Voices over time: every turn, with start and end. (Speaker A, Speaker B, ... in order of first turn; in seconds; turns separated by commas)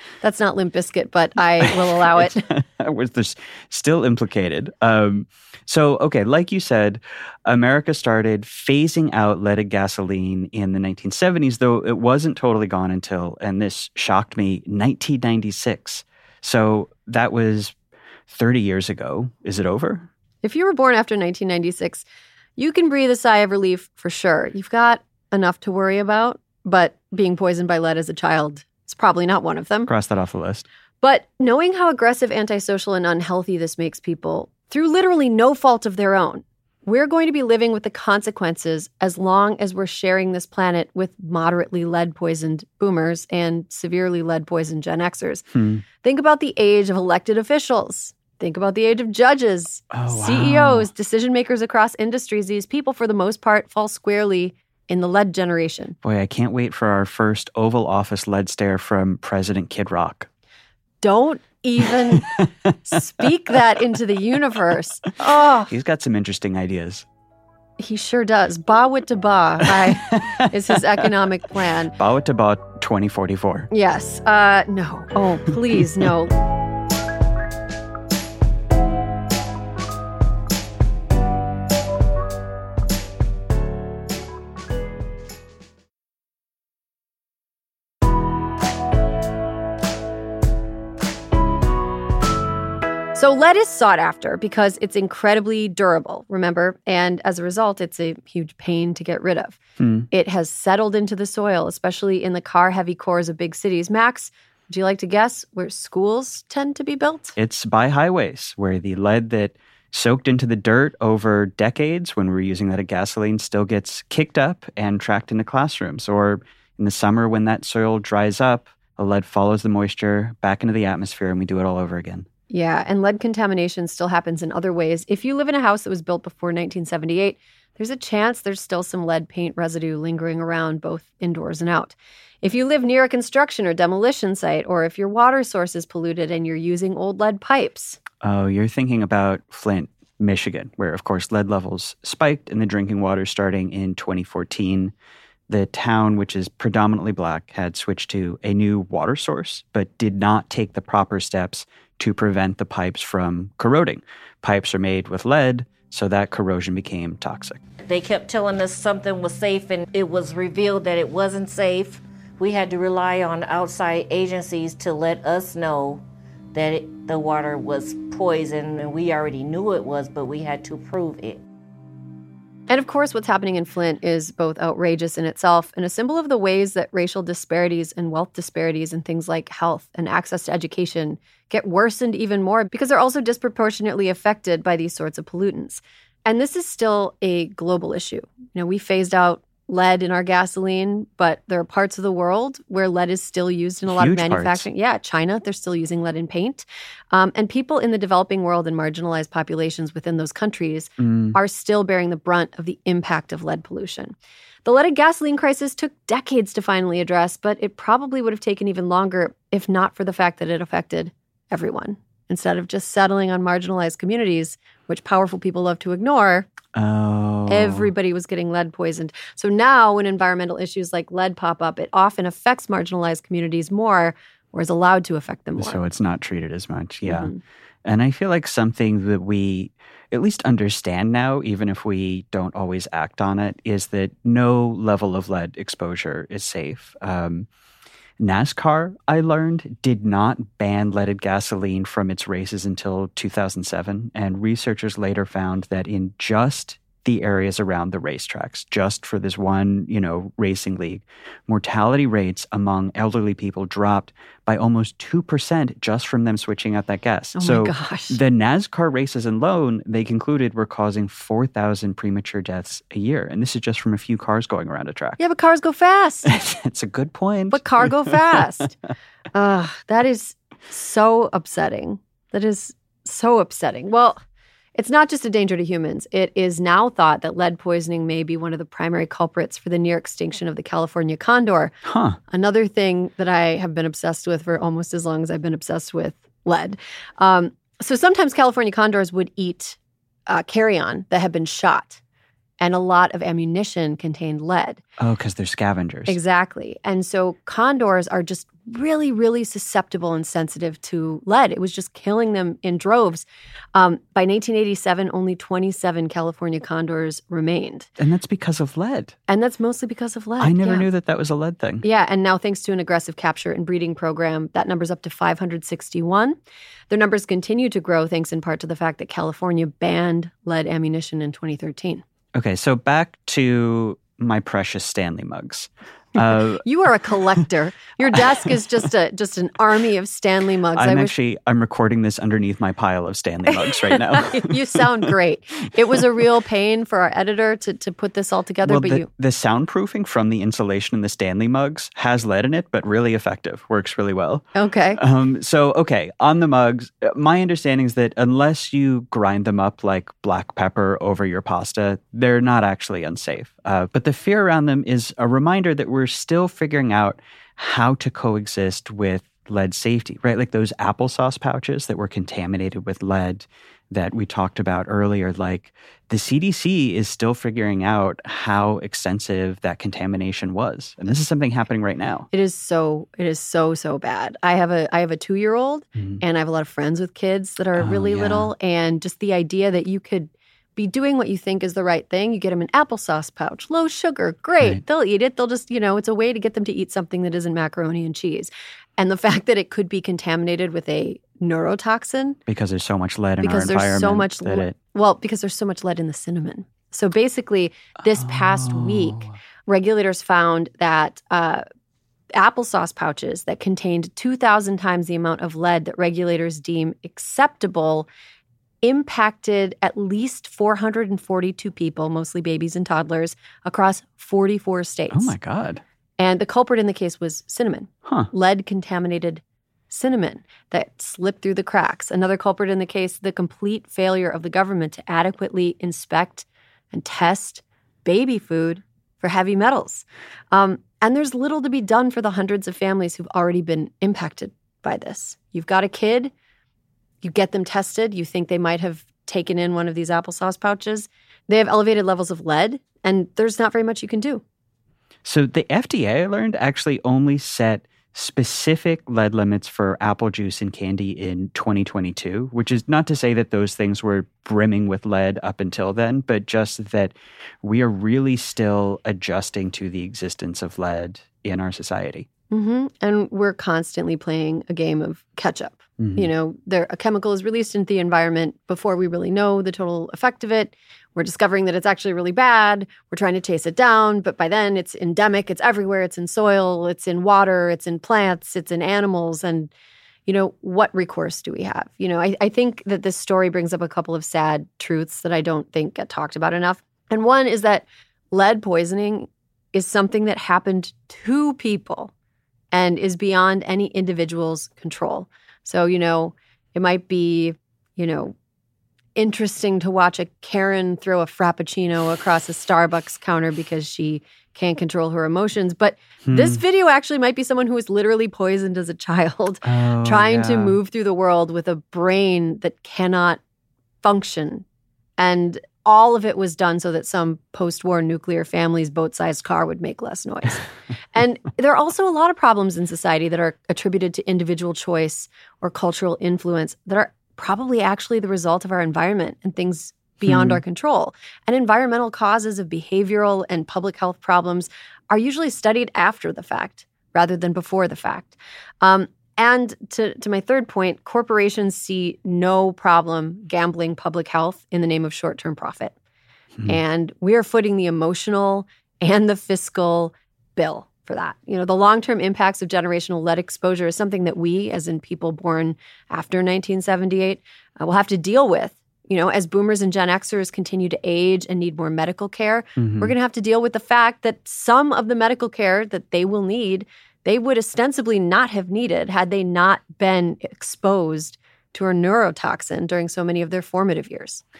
Speaker A: 0.2-2.5, Speaker B: 1.6-17.7, Speaker B: 18.3-20.1, Speaker A: 20.4-22.0, Speaker A: 22.6-29.9, Speaker B: 29.9-30.7, Speaker A: 31.0-45.4, Speaker B: 45.5-45.8, Speaker A: 46.0-56.0, Speaker B: 49.9-50.9, Speaker B: 56.0-60.3, Speaker A: 61.0-65.7, Speaker B: 62.1-62.5, Speaker B: 65.7-67.0, Speaker A: 67.8-72.0, Speaker B: 69.6-70.5, Speaker B: 72.0-73.7, Speaker A: 73.7-76.3, Speaker A: 93.1-99.6, Speaker B: 99.8-100.1, Speaker A: 100.1-107.3, Speaker B: 107.4-122.3, Speaker A: 122.5-138.0, Speaker B: 138.2-144.9, Speaker B: 145.5-157.6, Speaker C: 157.8-166.0, Speaker C: 166.5-171.4, Speaker A: 172.7-216.5, Speaker B: 193.8-194.7, Speaker B: 201.0-201.4, Speaker B: 216.7-217.9, Speaker A: 217.5-225.8, Speaker B: 225.6-227.3, Speaker A: 227.0-227.4, Speaker B: 227.8-237.5, Speaker B: 238.2-265.2, Speaker A: 257.4-258.2, Speaker A: 265.2-266.3, Speaker B: 266.2-268.4, Speaker A: 267.5-268.8, Speaker A: 269.3-274.2, Speaker A: 274.8-281.7, Speaker B: 281.8-282.2, Speaker A: 282.3-289.8, Speaker A: 290.3-292.0, Speaker A: 292.6-294.8, Speaker B: 295.0-296.2, Speaker A: 296.1-307.9, Speaker B: 308.0-309.1, Speaker A: 309.3-310.9, Speaker B: 310.4-311.8, Speaker A: 311.8-316.4, Speaker A: 316.9-322.0, Speaker B: 322.3-326.6, Speaker A: 326.6-331.1, Speaker B: 330.7-334.8, Speaker A: 333.7-339.1, Speaker B: 338.6-372.3, Speaker A: 344.5-345.0, Speaker A: 372.3-392.4, Speaker B: 377.8-378.5, Speaker B: 392.5-394.8, Speaker A: 393.4-401.6, Speaker B: 398.2-399.3, Speaker A: 402.3-408.1, Speaker A: 408.8-415.3, Speaker B: 415.1-415.8, Speaker A: 416.2-436.3, Speaker A: 437.2-444.4, Speaker B: 445.2-462.3, Speaker A: 462.5-479.7, Speaker B: 466.0-466.3, Speaker A: 480.2-492.1, Speaker A: 492.7-498.4, Speaker A: 499.1-513.4, Speaker B: 506.2-506.6, Speaker B: 509.6-510.8, Speaker A: 514.0-514.6, Speaker A: 515.2-520.6, Speaker A: 521.1-545.9, Speaker B: 530.2-530.6, Speaker A: 546.7-574.4, Speaker B: 562.8-563.1